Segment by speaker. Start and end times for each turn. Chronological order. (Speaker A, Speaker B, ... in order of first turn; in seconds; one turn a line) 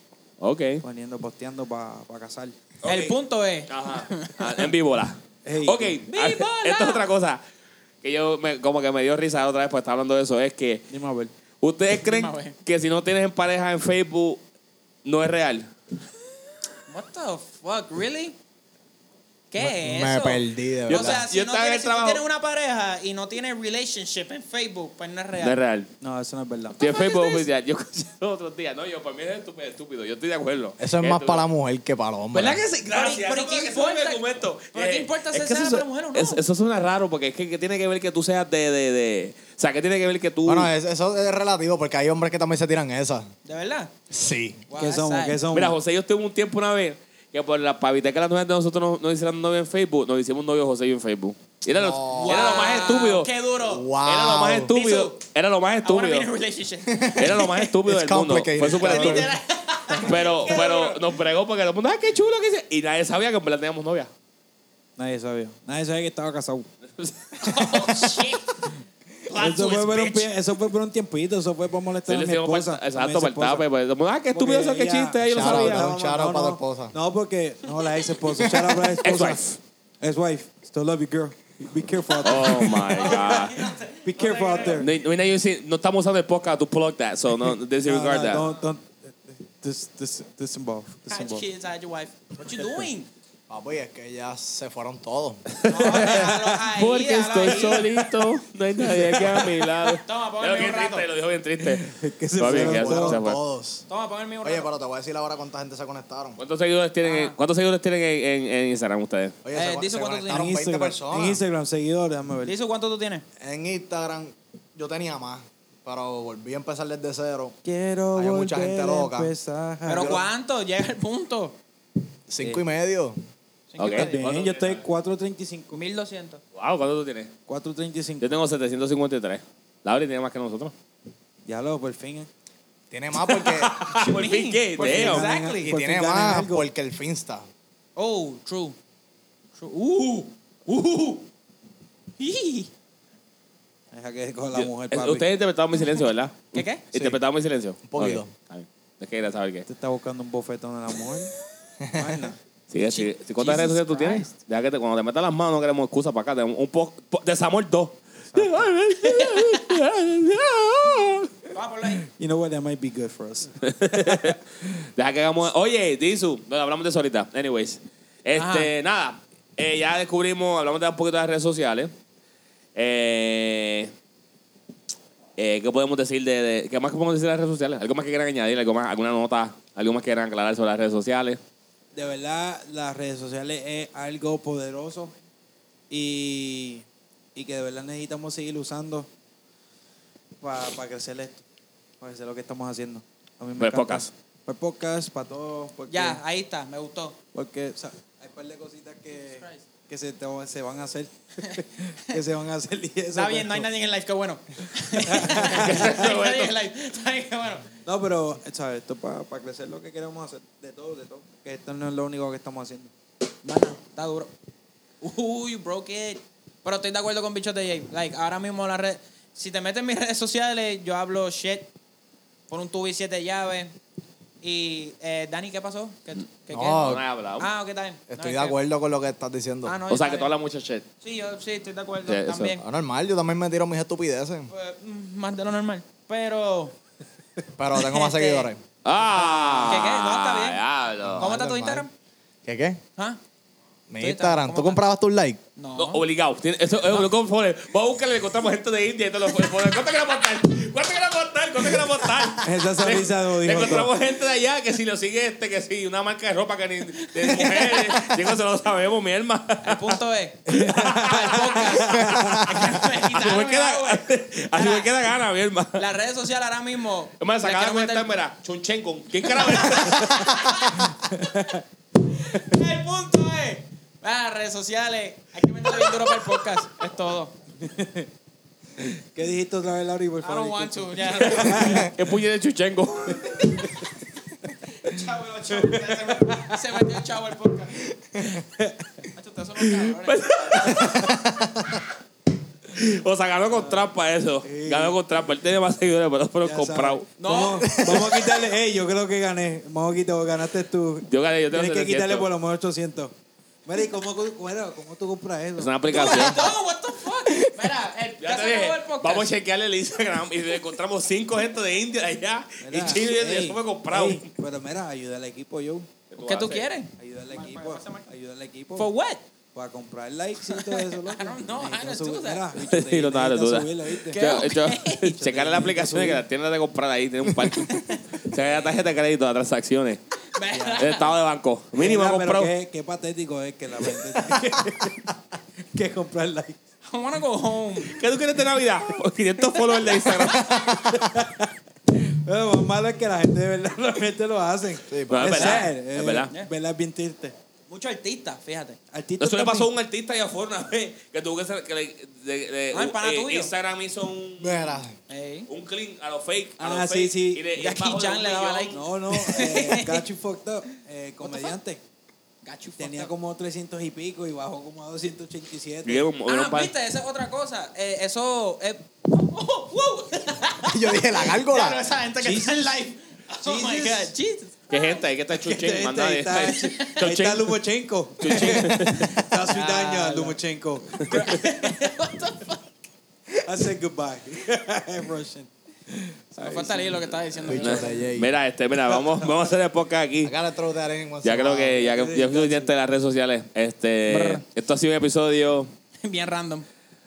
Speaker A: 0.4-0.8
Speaker B: 0.8-2.7
Speaker A: 2.8-3.1
Speaker C: 2.8-4.7
Speaker A: 3.7-7.4
Speaker B: 5.5-6.0
Speaker C: 6.1-7.1
Speaker A: 8.0-10.9
Speaker B: 10.9-11.3
Speaker A: 11.6-14.4
Speaker C: 11.9-12.6
Speaker A: 15.1-15.7
Speaker C: 16.9-18.4
Speaker C: 19.5-25.6
Speaker D: 19.6-21.2
Speaker A: 20.9-22.2
Speaker A: 25.4-25.9
Speaker B: 26.0-26.8
Speaker C: 26.8-27.5
Speaker A: 26.8-31.4
Speaker D: 30.8-32.6
Speaker A: 32.3-40.7
Speaker C: 32.9-36.4
Speaker D: 40.5-43.3
Speaker C: 43.5-43.9
Speaker D: 44.1-44.6
Speaker C: 44.7-45.4
Speaker B: 44.7-45.8
Speaker A: 45.5-53.3
Speaker D: 51.7-52.8
Speaker C: 52.1-53.9
Speaker D: 53.6-54.7
Speaker A: 54.0-56.3
Speaker C: 54.7-55.2
Speaker C: 55.8-57.6
Speaker D: 56.9-59.4
Speaker A: 57.2-59.4
Speaker C: 58.8-61.0
Speaker A: 60.0-64.1
Speaker B: 65.0-66.7
Speaker A: 67.0-67.8
Speaker C: 67.4-68.6
Speaker C: 69.3-70.3
Speaker B: 69.3-73.7
Speaker A: 72.1-75.9
Speaker B: 74.3-79.4
Speaker D: 75.3-76.9
Speaker A: 79.0-79.6
Speaker B: 80.0-83.4
Speaker A: 82.2-83.6
Speaker C: 82.4-84.9
Speaker B: 84.0-84.9
Speaker A: 84.6-88.5
Speaker B: 87.8-91.5
Speaker C: 91.1-93.1
Speaker D: 93.5-95.5
Speaker A: 95.5-103.4
Speaker C: 95.7-97.9
Speaker B: 96.1-96.4
Speaker B: 98.8-99.6
Speaker C: 100.0-101.1
Speaker B: 101.8-103.2
Speaker D: 102.4-103.9
Speaker C: 103.9-104.7
Speaker D: 104.4-106.4
Speaker A: 106.4-109.3
Speaker C: 107.0-107.3
Speaker D: 109.4-111.4
Speaker C: 109.5-110.5
Speaker B: 110.3-112.6
Speaker C: 112.5-113.2
Speaker D: 113.4-117.6
Speaker B: 117.6-120.2
Speaker D: 118.2-119.3
Speaker C: 119.9-121.6
Speaker D: 119.9-120.2
Speaker D: 122.3-123.2
Speaker B: 122.4-122.7
Speaker C: 123.7-124.2
Speaker A: 123.8-124.8
Speaker B: 123.8-125.8
Speaker C: 125.7-126.4
Speaker A: 126.5-127.3
Speaker B: 127.5-128.3
Speaker A: 128.2-130.7
Speaker B: 131.5-132.3
Speaker D: 132.9-133.8
Speaker A: 133.2-135.3
Speaker C: 133.9-135.7
Speaker B: 134.8-136.7
Speaker D: 135.6-137.4
Speaker C: 138.0-138.8
Speaker C: 139.6-141.2
Speaker C: 142.2-142.7
Speaker B: 143.9-145.3
Speaker A: 144.5-149.7
Speaker C: 145.8-146.8
Speaker D: 146.9-147.2
Speaker D: 147.8-148.3
Speaker B: 149.7-151.3
Speaker D: 151.8-152.3
Speaker B: 151.9-152.4
Speaker A: 152.7-161.3
Speaker C: 152.8-154.3
Speaker B: 158.2-158.7
Speaker C: 159.0-159.8
Speaker C: 161.5-162.1
Speaker B: 162.1-164.3
Speaker A: 163.7-164.4
Speaker A: 164.9-171.9
Speaker C: 168.3-168.7
Speaker A: 172.8-173.9
Speaker A: 175.4-181.4
Speaker B: 181.9-185.2
Speaker B: 185.9-189.1
Speaker B: 190.4-191.4
Speaker B: 192.0-196.2
Speaker A: 193.6-194.1
Speaker C: 195.9-197.2
Speaker B: 197.3-203.7
Speaker C: 199.4-199.6
Speaker C: 203.1-207.7
Speaker B: 205.0-206.0
Speaker A: 205.4-206.6
Speaker B: 207.8-212.9
Speaker C: 213.4-214.3
Speaker C: 215.0-221.7
Speaker C: 222.5-223.7
Speaker C: 224.4-228.6
Speaker D: 226.5-227.0
Speaker A: 226.8-227.5
Speaker D: 228.1-229.8
Speaker C: 229.7-230.3
Speaker A: 229.9-230.8
Speaker C: 231.0-232.7
Speaker A: 232.1-232.6
Speaker D: 232.6-234.5
Speaker C: 234.5-236.8
Speaker D: 237.6-238.6
Speaker C: 237.7-238.5
Speaker A: 238.8-241.3
Speaker C: 239.1-240.6
Speaker D: 241.1-241.9
Speaker C: 241.2-241.9
Speaker D: 242.4-242.8
Speaker D: 243.9-245.4
Speaker C: 244.0-244.8
Speaker C: 245.6-246.0
Speaker A: 245.8-259.9
Speaker B: 252.4-253.9
Speaker C: 257.1-258.1
Speaker C: 259.6-264.9
Speaker B: 260.5-262.4
Speaker A: 260.5-265.8
Speaker C: 265.8-268.1
Speaker A: 267.2-270.4
Speaker C: 269.3-271.6
Speaker B: 270.9-271.6
Speaker C: 272.1-277.3
Speaker B: 277.6-278.1
Speaker B: 278.8-281.9
Speaker C: 280.2-281.9
Speaker A: 281.5-283.5
Speaker C: 283.4-283.7
Speaker C: 284.8-287.9
Speaker B: 285.5-286.6
Speaker B: 288.4-289.0
Speaker C: 289.1-290.8
Speaker A: 289.9-291.7
Speaker A: 292.7-297.1
Speaker B: 293.5-293.9
Speaker B: 294.4-295.0
Speaker B: 296.4-303.1
Speaker C: 297.2-298.2
Speaker A: 301.1-302.3
Speaker B: 303.6-306.3
Speaker A: 305.6-306.5
Speaker C: 305.9-309.3
Speaker A: 308.2-314.3
Speaker B: 312.6-315.9
Speaker A: 316.1-316.7
Speaker C: 316.2-318.1
Speaker B: 317.0-318.9
Speaker C: 318.8-319.2
Speaker B: 319.5-324.2
Speaker C: 320.5-322.5
Speaker A: 322.6-330.0
Speaker C: 324.1-325.1
Speaker B: 325.0-326.2
Speaker C: 327.7-328.0
Speaker C: 330.3-331.1
Speaker B: 330.5-330.9
Speaker A: 330.8-332.5
Speaker B: 331.8-335.1
Speaker B: 335.7-336.6
Speaker C: 336.9-338.0
Speaker A: 337.9-340.7
Speaker C: 340.1-340.7
Speaker B: 340.5-347.4
Speaker D: 344.9-345.6
Speaker A: 345.1-346.3
Speaker C: 345.4-345.6
Speaker C: 347.7-348.8
Speaker B: 348.9-349.7
Speaker A: 349.2-354.8
Speaker C: 352.7-353.5
Speaker D: 354.4-354.9
Speaker C: 355.1-355.5
Speaker A: 355.5-358.8
Speaker B: 356.6-357.5
Speaker C: 357.6-360.1
Speaker B: 358.7-361.8
Speaker C: 361.2-361.6
Speaker C: 362.4-363.1
Speaker B: 362.8-366.1
Speaker A: 365.9-366.7
Speaker C: 366.3-375.0
Speaker D: 370.6-371.8
Speaker B: 372.2-372.8
Speaker B: 373.4-374.1
Speaker A: 374.7-377.5
Speaker B: 375.3-381.6
Speaker C: 376.5-377.1
Speaker A: 378.2-379.1
Speaker C: 378.3-380.4
Speaker C: 381.1-382.6
Speaker B: 383.4-387.8
Speaker C: 386.4-388.0
Speaker D: 387.5-388.3
Speaker A: 387.5-390.3
Speaker B: 388.9-389.3
Speaker D: 390.2-391.9
Speaker A: 391.2-395.7
Speaker B: 391.7-392.7
Speaker C: 394.1-394.4
Speaker C: 396.0-396.7